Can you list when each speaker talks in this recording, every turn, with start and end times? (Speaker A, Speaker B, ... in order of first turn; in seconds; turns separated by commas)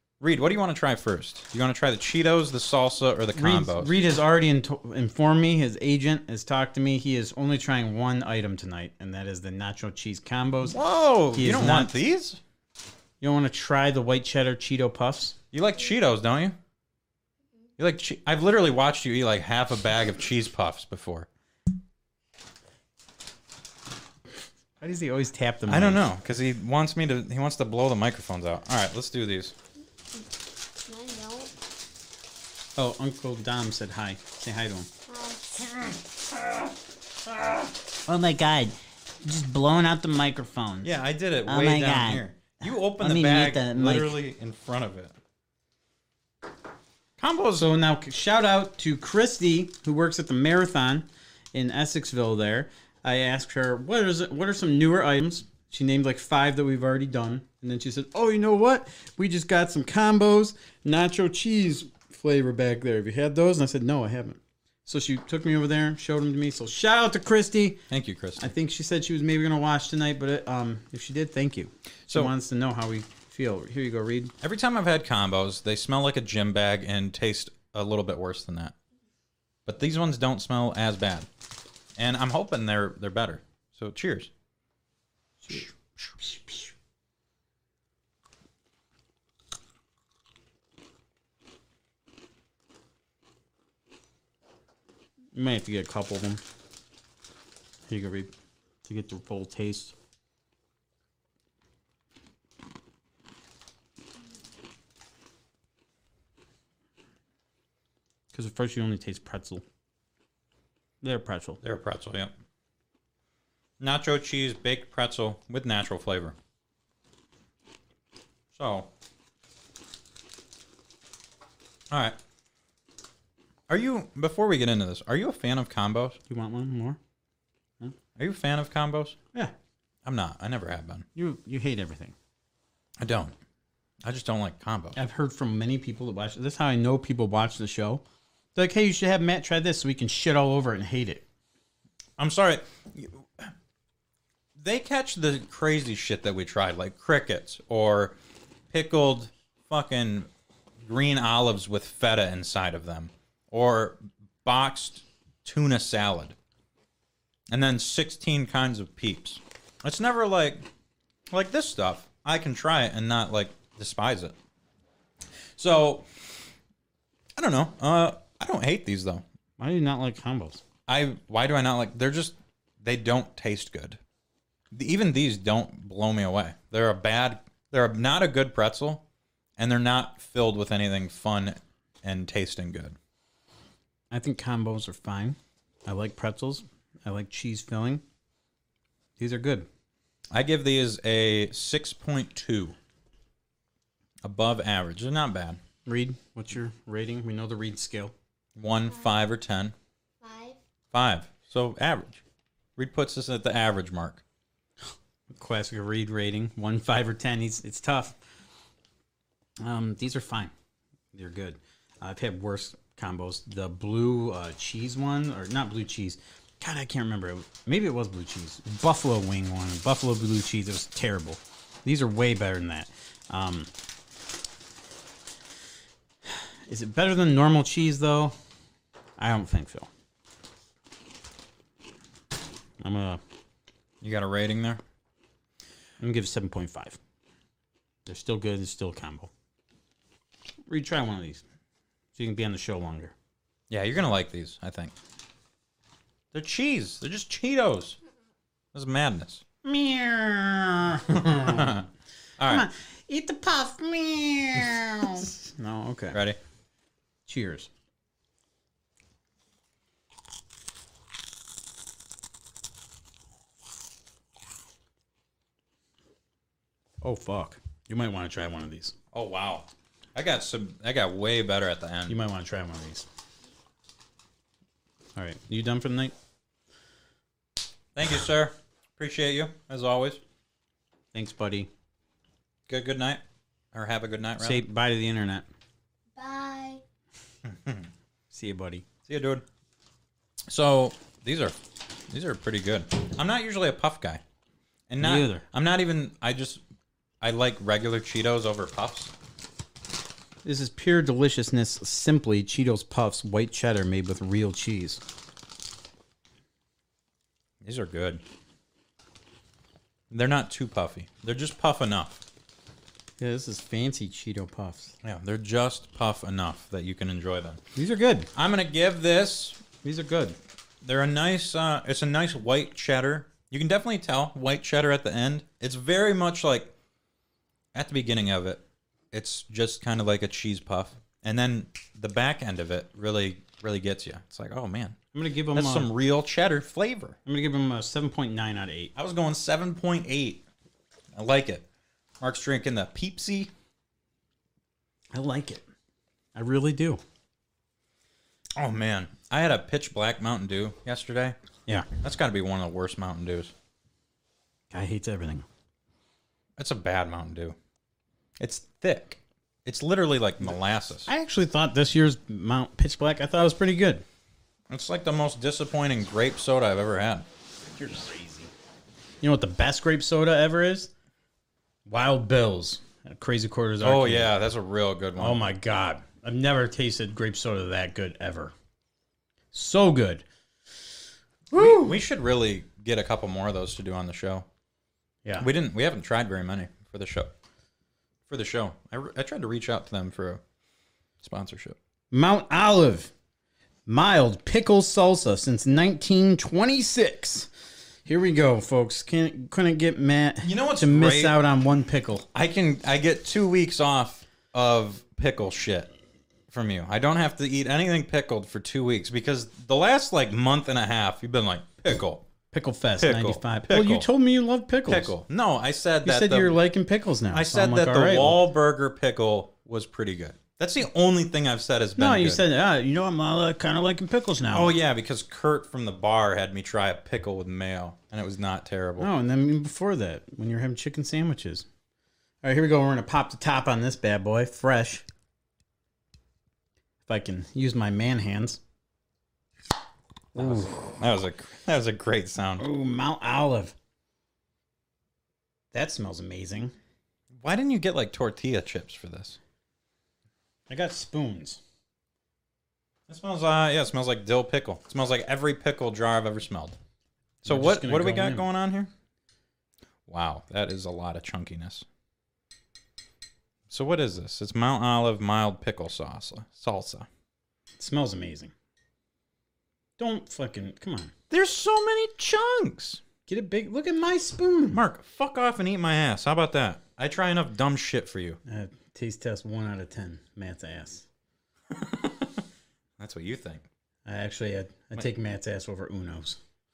Speaker A: 0.2-3.9, Speaker B: 3.3-10.8, Speaker A: 10.6-12.4, Speaker B: 11.3-11.9, Speaker B: 13.2-15.3, Speaker A: 15.5-16.6, Speaker A: 17.8-21.3, Speaker B: 24.8-26.0, Speaker A: 25.7-29.5, Speaker C: 30.9-31.5, Speaker B: 32.8-34.9, Speaker C: 35.1-35.6, Speaker B: 38.0-40.9, Speaker A: 40.8-45.1, Speaker B: 41.4-44.2, Speaker A: 47.2-47.7, Speaker B: 47.6-67.8, Speaker A: 67.9-68.5, Speaker B: 68.4-74.3, Speaker A: 72.1-72.3, Speaker A: 74.4-78.7, Speaker A: 79.7-81.3, Speaker A: 82.0-84.3, Speaker A: 85.5-86.3, Speaker B: 95.3-96.4, Speaker B: 97.9-98.3, Speaker B: 98.8-99.9, Speaker B: 108.3-109.6, Speaker B: 111.0-111.6, Speaker A: 111.6-112.3, Speaker A: 113.8-116.3, Speaker A: 118.5-118.9, Speaker A: 121.9-122.2, Speaker A: 123.7-126.2, Speaker B: 126.3-127.0, Speaker A: 128.2-129.2, Speaker A: 130.0-131.1, Speaker B: 131.1-132.1, Speaker A: 133.0-133.3, Speaker A: 134.0-135.0, Speaker B: 134.9-138.0, Speaker B: 138.5-141.2, Speaker A: 142.2-143.5, Speaker A: 144.6-148.2, Speaker A: 148.7-150.3, Speaker A: 150.8-156.3, Speaker A: 157.5-160.7, Speaker A: 161.3-164.3, Speaker A: 165.6-166.1, Speaker A: 167.4-169.2, Speaker B: 169.6-170.6, Speaker A: 170.9-174.0, Speaker A: 174.7-179.0, Speaker A: 179.6-183.0, Speaker B: 184.1-188.0, Speaker B: 189.2-189.7, Speaker A: 190.3-192.7, Speaker A: 194.2-195.6, Speaker B: 195.8-198.1, Speaker A: 198.5-199.7, Speaker C: 200.2-200.6, Speaker A: 200.9-202.2, Speaker A: 202.8-204.2, Speaker B: 205.3-208.2, Speaker B: 209.6-210.5, Speaker B: 211.1-223.7, Speaker B: 226.7-228.3, Speaker B: 229.2-229.9, Speaker B: 232.8-233.2, Speaker A: 234.0-234.8, Speaker B: 236.0-237.0, Speaker B: 238.1-239.3, Speaker B: 240.7-241.4, Speaker B: 242.1-243.1, Speaker A: 243.7-244.9, Speaker A: 246.3-248.0, Speaker A: 248.7-249.4, Speaker B: 249.6-251.8, Speaker A: 251.1-251.8, Speaker A: 252.4-252.7, Speaker B: 252.4-256.2, Speaker A: 256.1-256.4, Speaker B: 257.2-257.7, Speaker B: 267.0-268.9, Speaker A: 269.1-272.2, Speaker B: 272.1-273.1, Speaker B: 275.1-276.1, Speaker A: 277.9-280.2, Speaker B: 281.1-281.7, Speaker A: 282.7-284.6, Speaker B: 284.4-285.4, Speaker C: 286.1-286.8, Speaker A: 287.4-287.9, Speaker B: 288.3-288.8, Speaker A: 289.1-289.4, Speaker A: 290.5-291.6, Speaker A: 292.1-294.2, Speaker A: 294.9-296.6, Speaker B: 295.0-295.4, Speaker A: 297.2-299.1, Speaker B: 300.4-305.0, Speaker A: 307.6-308.2, Speaker A: 310.1-312.2, Speaker B: 313.2-314.9, Speaker A: 315.0-317.6, Speaker B: 317.8-318.3, Speaker A: 318.3-319.6, Speaker B: 319.8-320.4, Speaker A: 320.8-326.7, Speaker A: 327.7-335.0, Speaker B: 335.1-335.9, Speaker A: 335.5-337.2, Speaker B: 337.2-338.9, Speaker A: 338.9-340.4, Speaker A: 341.1-341.6, Speaker A: 342.2-343.5, Speaker B: 345.1-345.6, Speaker B: 346.3-347.0, Speaker A: 348.6-351.4, Speaker A: 352.0-353.5, Speaker B: 354.7-355.4, Speaker A: 356.6-357.6, Speaker A: 358.4-361.1, Speaker B: 361.1-364.0, Speaker A: 364.7-367.2, Speaker B: 367.8-368.5, Speaker B: 369.2-370.9, Speaker B: 371.9-374.3, Speaker A: 373.8-375.4, Speaker B: 375.2-378.5, Speaker B: 379.5-380.2, Speaker B: 381.5-381.9, Speaker A: 381.5-384.4, Speaker A: 385.4-387.3, Speaker A: 388.3-390.4, Speaker A: 391.2-391.8, Speaker B: 392.1-393.1, Speaker B: 393.9-397.5, Speaker B: 398.1-402.2, Speaker A: 400.4-401.4, Speaker A: 402.3-405.9, Speaker A: 406.5-412.3, Speaker B: 412.5-415.1, Speaker A: 413.0-414.1, Speaker A: 414.9-416.6, Speaker B: 416.0-418.4, Speaker A: 417.3-422.4, Speaker B: 422.0-424.7, Speaker A: 424.5-429.1, Speaker B: 429.0-431.6, Speaker B: 432.4-435.0, Speaker B: 437.1-438.6, Speaker B: 440.3-440.9, Speaker A: 440.4-442.6, Speaker B: 442.6-443.7, Speaker B: 445.7-446.7, Speaker A: 447.3-449.4, Speaker B: 450.7-451.6, Speaker A: 453.1-456.8, Speaker A: 457.4-458.9, Speaker B: 457.4-458.5, Speaker A: 460.1-461.9, Speaker A: 463.7-467.1, Speaker B: 467.8-468.5, Speaker B: 470.0-471.1, Speaker A: 471.3-473.0, Speaker B: 473.3-474.8, Speaker A: 474.7-478.4, Speaker B: 478.4-481.1, Speaker A: 481.7-482.4, Speaker A: 483.0-483.6, Speaker B: 484.0-486.4